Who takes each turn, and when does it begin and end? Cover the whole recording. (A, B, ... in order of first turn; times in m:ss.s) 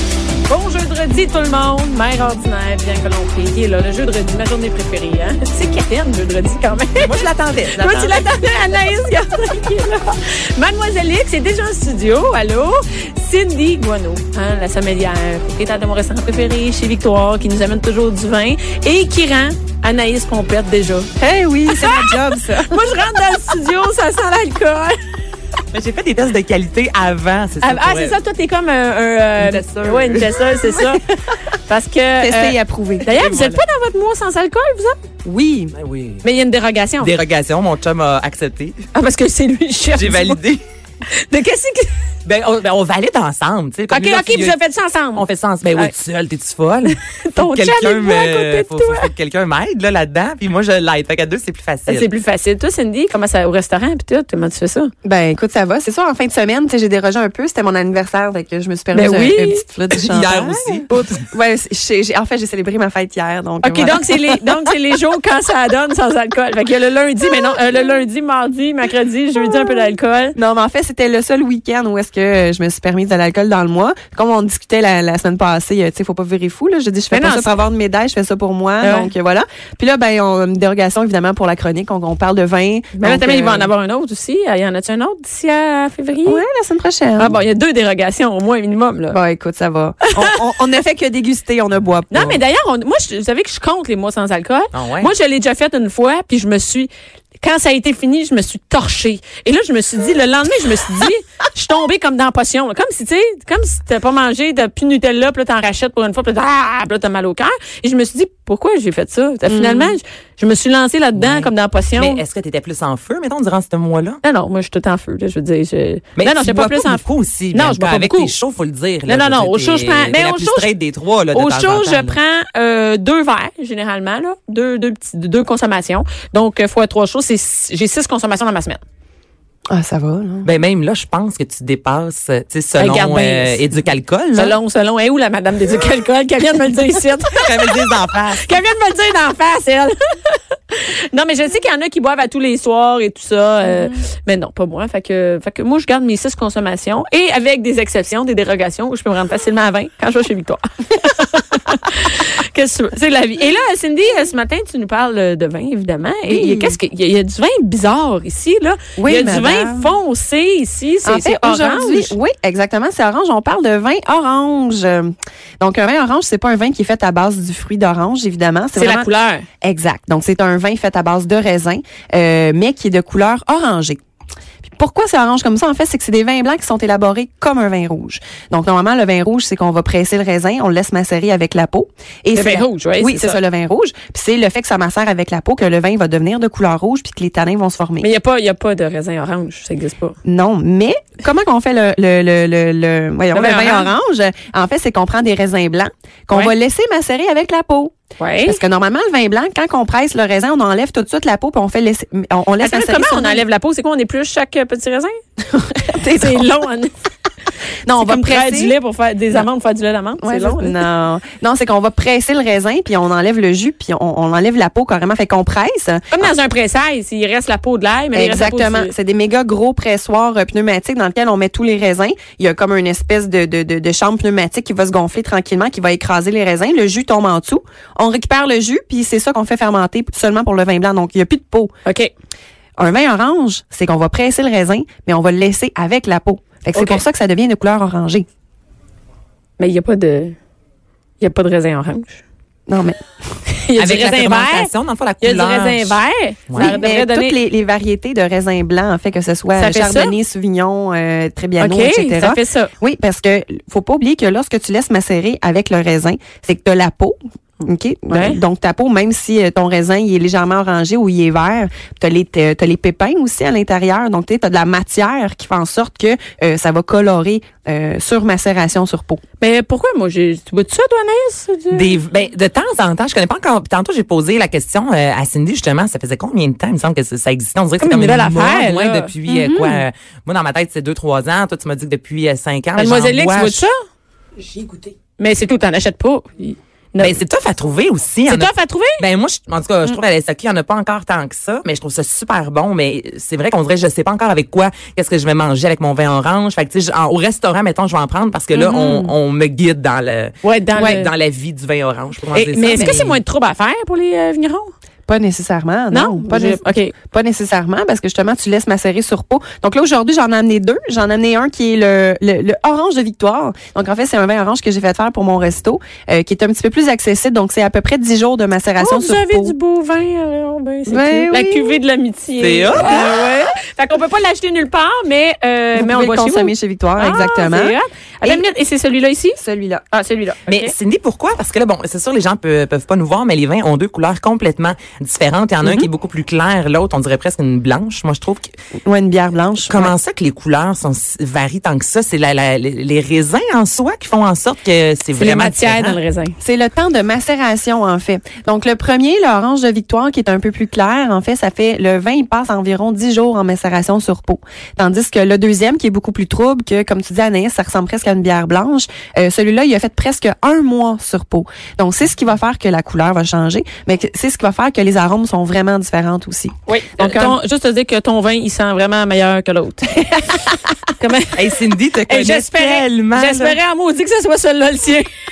0:00.5-0:07.2 A
0:07.0-0:08.3 B
0:07.8-0:21.1 A
0:21.2-0:22.8 C
0:21.7-0:22.1 A
0:22.6-0:25.0 A
0:25.7-0:28.2 B
0:27.6-0:31.0 A
0:29.4-0:30.2 B
0:30.5-0:31.0 C
0:31.7-0:35.0 A
0:32.2-0:33.1 C
0:33.1-0:33.6 B
0:35.2-0:35.7 C
0:35.7-0:36.2 B
0:36.2-0:37.1 A
0:37.0-0:38.8 B
0:38.9-0:40.4 A
0:39.9-0:40.6 B
0:41.1-0:41.9 A
0:42.2-0:44.6 B
0:43.9-0:45.9 A
0:45.1-0:52.1 B
0:47.0-0:49.1 A
0:51.9-0:54.9 A
0:55.0-1:04.4 C
0:58.9-0:59.6 A
0:59.9-1:01.2 B
1:03.6-1:10.4 A
1:10.4-1:23.7 C
1:17.1-1:17.5 A
1:18.8-1:19.1 A
1:23.0-1:26.4 A
1:26.2-1:27.4 C
1:27.2-1:29.2 A
1:29.1-1:32.4 C
1:32.1-1:52.2 A
1:34.7-1:35.1 B
1:49.5-1:50.0 C
1:51.2-1:54.2 B
1:54.2-1:58.3 A
1:56.2-2:02.2 B
1:59.0-2:00.7 A
2:01.3-2:08.8 A
2:09.7-2:10.5 C
2:10.4-2:14.6 B
2:12.8-2:13.6 A
2:14.3-2:42.2 A
2:17.3-2:18.5 B
2:36.3-2:36.8 C
2:39.0-2:39.9 C
2:41.0-2:49.1 C
2:48.7-2:49.4 A
2:49.6-2:54.0 C
2:54.6-3:08.1 C
3:02.3-3:03.4 A
3:08.0-3:10.2 A
3:10.2-3:17.9 C
3:13.3-3:13.9 A
3:18.2-3:18.6 A
3:18.4-3:23.4 C
3:22.6-3:25.1 A
3:25.4-3:26.5 C
3:26.1-3:26.9 A
3:27.8-3:28.7 C
3:28.0-3:30.8 A
3:30.2-3:36.3 C
3:36.1-3:38.9 A
3:38.1-3:51.7 C
3:51.8-3:52.1 A
3:52.8-3:58.2 C
3:56.7-3:57.0 A
3:59.6-4:00.4 A
4:01.2-4:02.2 A
4:02.7-4:03.0 C
4:03.5-4:04.7 A
4:03.8-4:06.0 B
4:05.2-4:07.4 A
4:06.5-4:06.8 B
4:06.5-4:29.2 C
4:09.5-4:10.2 A
4:11.6-4:12.7 A
4:18.1-4:18.4 A
4:29.4-4:32.0 A
4:31.7-4:43.6 B
4:37.8-4:39.1 A
4:39.3-4:39.8 C
4:42.8-4:43.7 A
4:45.2-4:47.2 A
4:47.0-5:03.2 B
4:48.3-4:49.0 A
4:58.5-4:59.1 C
5:00.4-5:01.1 A
5:02.3-5:04.7 A
5:02.6-5:03.0 C
5:05.1-5:19.5 C
5:05.9-5:06.9 A
5:18.8-5:29.4 A
5:20.9-5:21.8 C
5:22.4-5:23.1 B
5:25.8-5:28.4 C
5:29.4-5:29.8 C
5:29.9-5:30.7 A
5:30.5-5:38.5 B
5:38.8-5:39.9 C
5:39.6-5:46.0 B
5:45.1-5:46.3 A
5:46.4-6:07.4 C
6:06.7-6:10.0 A
6:11.0-6:11.4 A
6:11.3-6:13.6 B
6:12.1-6:15.1 A